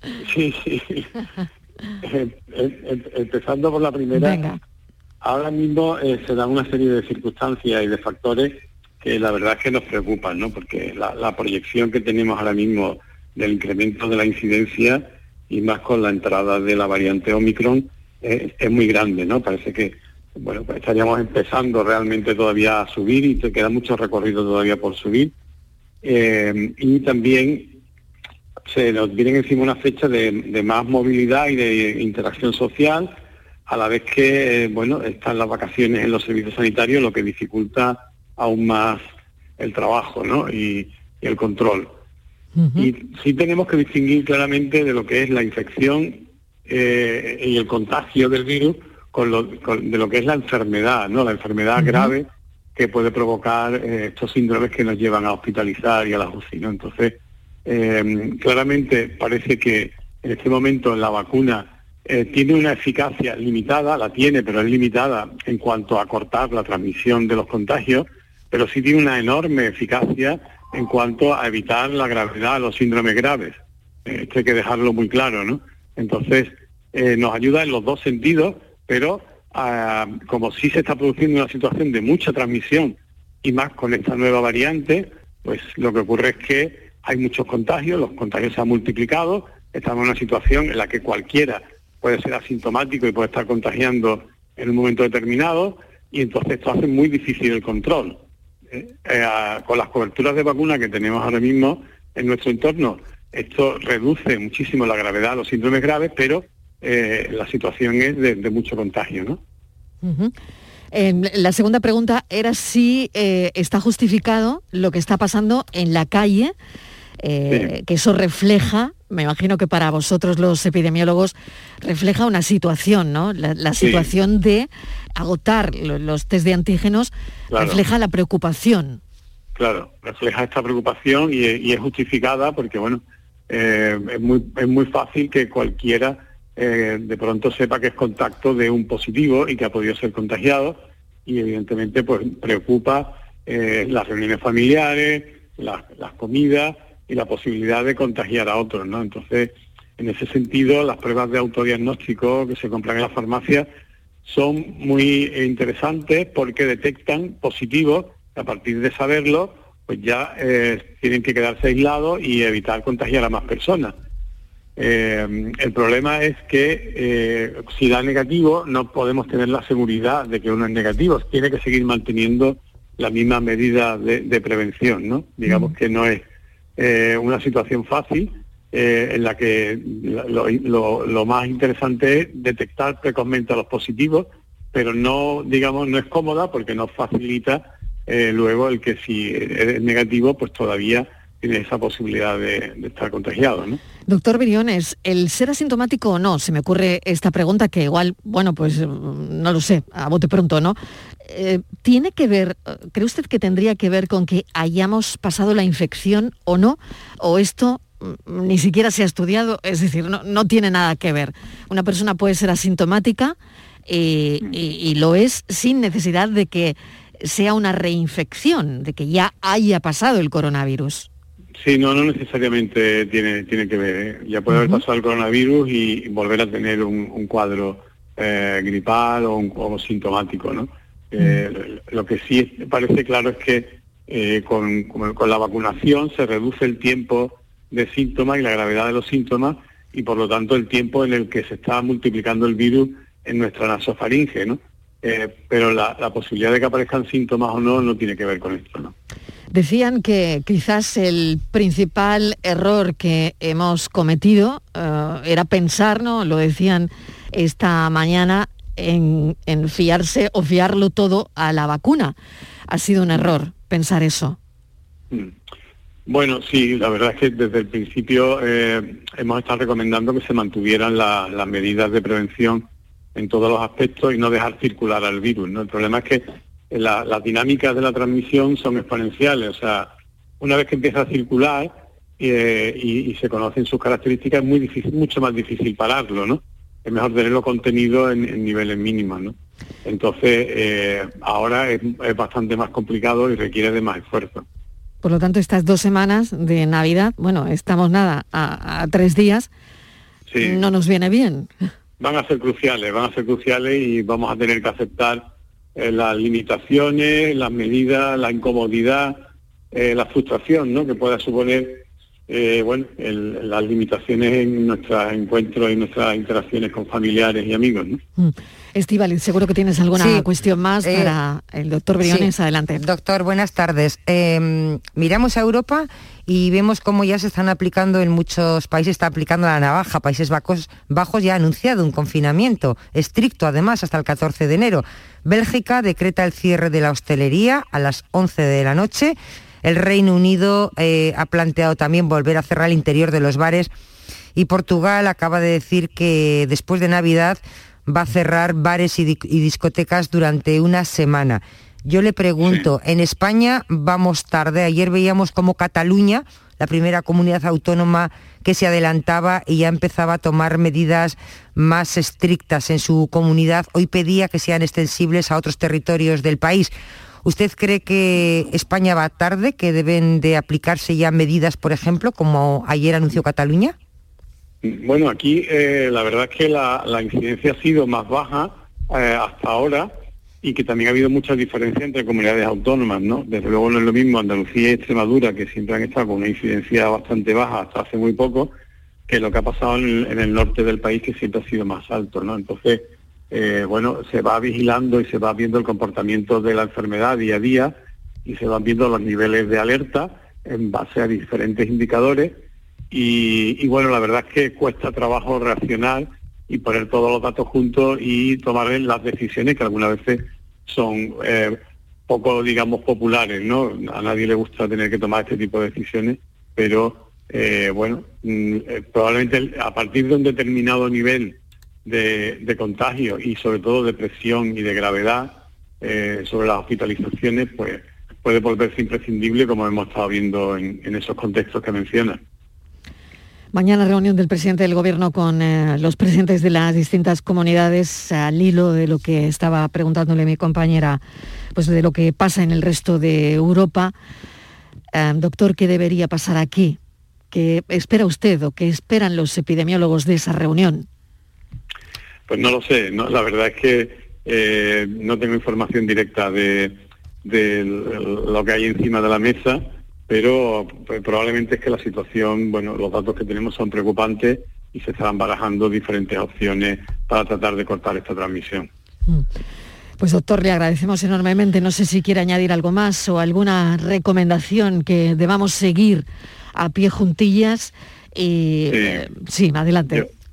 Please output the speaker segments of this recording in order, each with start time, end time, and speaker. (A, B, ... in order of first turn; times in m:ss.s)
0:00.2-0:01.1 A
0:02.0-0:04.4 A
0:04.1-0:04.6 B
0:05.2-0:25.3 A
0:26.0-0:27.8 A
0:28.7-0:33.1 A
0:33.7-0:39.0 A
0:39.6-0:41.9 A
0:42.6-0:42.9 B
0:42.8-1:49.4 A
0:51.8-0:52.1 B
1:50.0-1:50.3 B
1:50.9-1:56.5 B
1:57.2-2:09.0 B
2:03.8-2:04.1 A
2:07.5-2:07.8 A
2:09.6-2:33.7 A
2:34.2-2:44.0 A
2:44.8-2:56.2 A
2:55.5-2:55.7 B
2:56.8-3:13.8 A
3:14.1-3:33.4 B
3:33.9-3:41.1 B
3:41.6-4:08.9 A
3:44.5-3:44.8 B
4:09.5-4:22.1 B
4:22.7-4:24.4 B
4:26.1-4:54.4 A
4:55.0-4:59.5 B
5:00.3-5:00.6 A
5:00.4-5:01.5 B
5:02.0-5:05.2 A
5:05.8-5:09.2 A
5:09.7-5:18.0 A
5:18.2-5:22.8 B
5:19.9-5:20.3 C
5:20.8-5:21.1 C
5:22.0-5:43.7 C
5:44.4-6:06.7 C
6:07.2-6:13.7 C
6:14.6-6:19.9 A
6:20.4-6:28.5 A
6:29.1-6:37.7 A
6:38.2-7:12.2 A
7:13.5-7:21.0 B
7:21.6-7:23.9 B
7:24.9-7:26.8 B
7:27.3-7:30.9 B
7:32.3-7:48.7 A
7:50.0-8:00.1 B
7:58.7-7:59.0 A